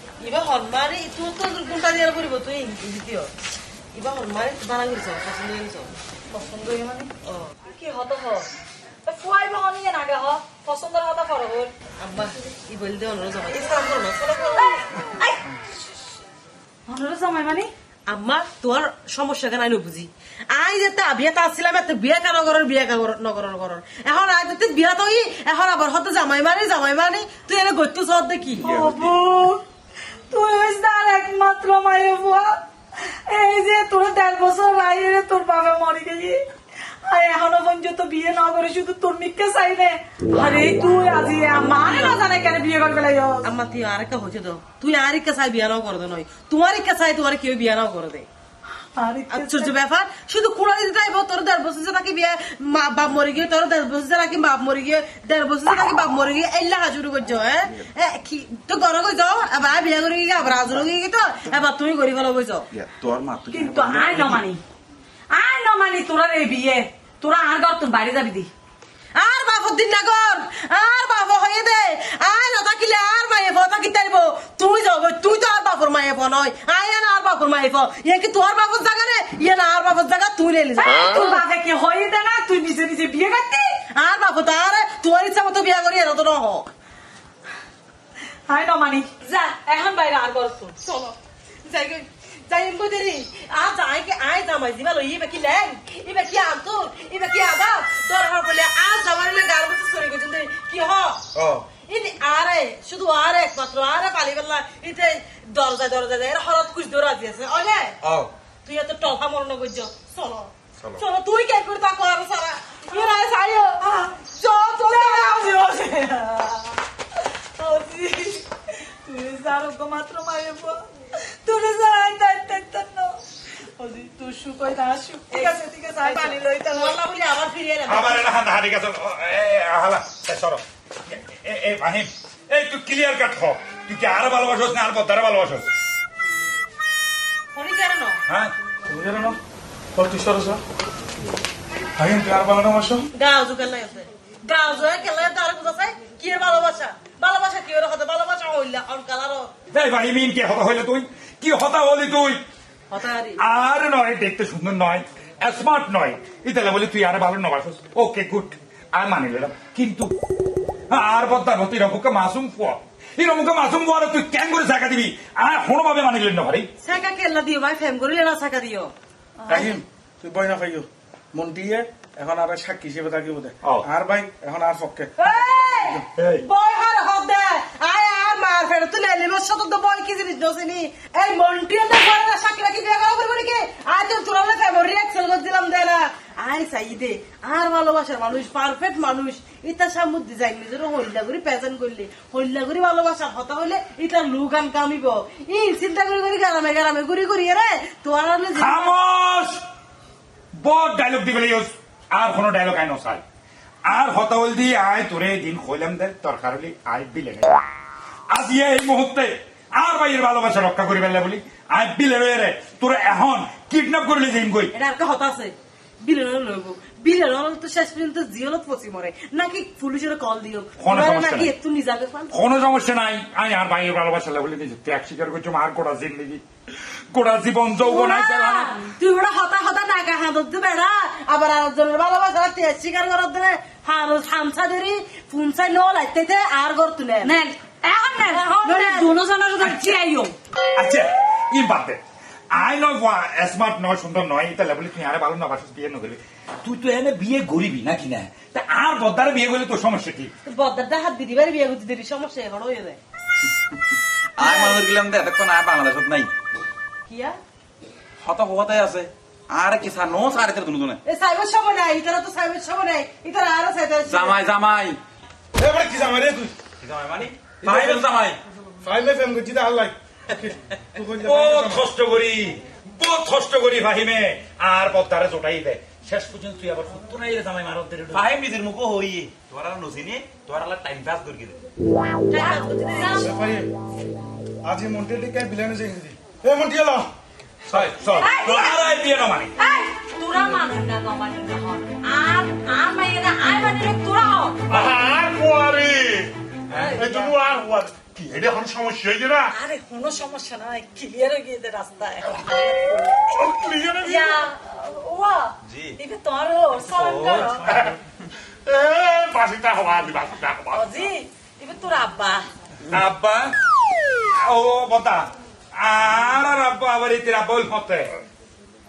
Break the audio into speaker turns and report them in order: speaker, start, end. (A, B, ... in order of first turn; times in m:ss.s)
0:00.2-0:03.3 A
0:03.9-0:05.9 A
0:06.3-0:07.1 B
0:07.3-0:07.5 A
0:07.7-0:08.5 B
0:09.0-0:11.7 B
0:12.0-0:14.7 A
0:14.7-0:15.4 B
0:16.8-0:17.7 B
0:18.1-0:28.7 A
0:28.6-0:29.6 B
0:30.3-0:32.6 B
0:33.3-0:36.4 B
0:37.0-0:43.4 B
0:41.5-0:42.2 A
0:43.4-0:48.3 A
0:48.9-0:49.7 B
0:49.3-1:02.7 A
1:02.7-1:04.4 C
1:03.5-1:04.6 B
1:05.3-1:08.5 B
1:09.1-1:21.4 A
1:20.8-1:23.8 B
1:23.9-1:26.7 A
1:28.5-1:30.8 B
1:30.8-1:41.2 A
1:41.3-1:41.6 C
1:41.8-1:48.0 A
1:48.0-1:48.3 C
1:48.6-1:55.4 A
1:53.8-1:54.2 B
1:54.8-1:56.8 B
1:57.6-1:58.5 B
1:59.0-2:00.8 B
2:01.4-2:03.1 B
2:03.8-2:07.0 B
2:05.3-2:08.3 A
2:07.9-2:15.7 D
2:17.5-2:18.2 A
2:18.3-2:18.5 D
2:18.8-2:19.4 E
2:19.9-2:20.6 E
2:22.0-2:23.0 E
2:23.1-2:29.5 A
2:29.7-2:32.4 D
2:32.9-2:33.4 A
2:33.4-2:40.1 D
2:40.9-2:46.7 D
2:46.8-2:48.9 A
2:49.4-2:49.8 B
2:49.5-2:56.0 E
2:55.2-3:18.9 A
2:56.2-2:56.4 D
3:18.5-3:19.6 D
3:20.5-3:23.2 D
3:23.8-3:27.6 D
3:28.3-3:34.7 D
3:34.7-3:42.3 A
3:40.8-3:41.5 D
3:42.3-3:46.4 D
3:47.1-3:48.7 D
3:47.8-3:57.3 A
3:57.2-4:00.3 B
3:58.3-4:00.0 A
4:00.7-4:02.0 D
4:02.5-4:10.3 D
4:10.4-4:13.0 A
4:14.4-4:16.3 C
4:14.4-4:15.0 A
4:17.0-4:17.4 A
4:18.2-4:21.0 C
4:21.0-4:24.5 A
4:24.0-4:25.0 C
4:25.6-4:26.5 E
4:26.8-4:28.4 C
4:27.6-4:28.0 E
4:27.7-4:28.1 D
4:28.8-4:31.9 E
4:31.2-4:38.3 D
4:38.1-4:41.6 C
4:42.3-4:43.3 A
4:42.3-4:43.4 B
4:43.2-4:43.7 E
4:44.6-4:47.1 E
4:47.7-4:49.5 D
4:48.1-4:48.8 B
4:49.6-4:54.6 B
4:54.7-4:56.3 F
4:56.7-4:57.3 B
4:56.9-4:59.5 F
4:59.5-5:03.1 B
5:03.2-5:04.4 F
5:04.0-5:07.7 B
5:05.7-5:06.0 C
5:06.9-5:07.7 C
5:08.6-5:11.0 F
5:10.7-5:12.4 B
5:12.9-5:13.6 D
5:14.4-5:18.1 D